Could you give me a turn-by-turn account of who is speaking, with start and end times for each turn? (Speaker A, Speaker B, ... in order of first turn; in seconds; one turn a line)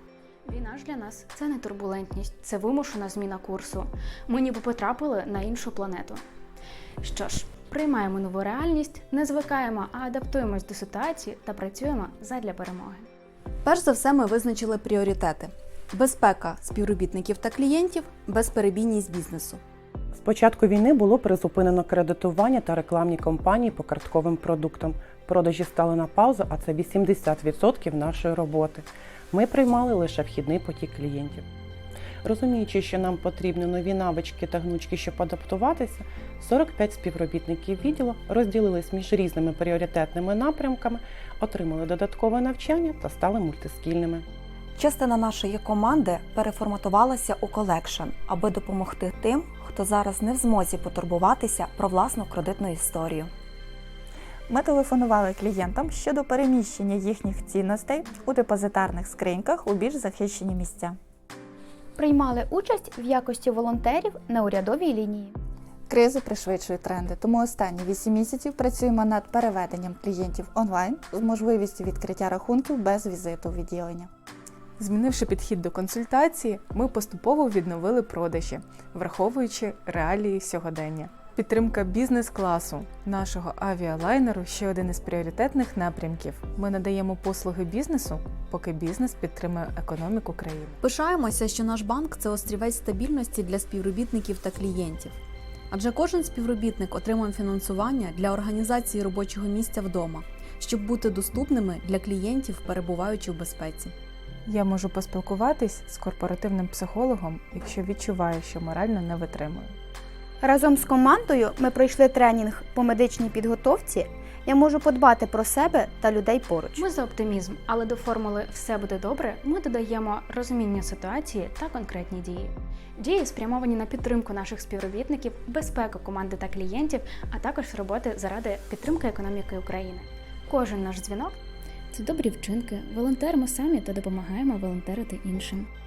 Speaker A: 0.5-6.2
Speaker A: 7.0-13.0
Speaker B: 13.6-19.6
Speaker C: 20.1-31.4
Speaker C: 32.2-44.2
Speaker D: 44.8-53.3
Speaker E: 54.5-61.0
Speaker F: 62.0-65.4
Speaker E: 65.9-74.1
Speaker G: 74.8-90.8
Speaker B: 90.8-95.2
Speaker B: 95.7-103.9
Speaker G: 104.5-109.7
Speaker F: 110.4-116.8
Speaker A: 116.8-131.3
Speaker A: 131.9-135.7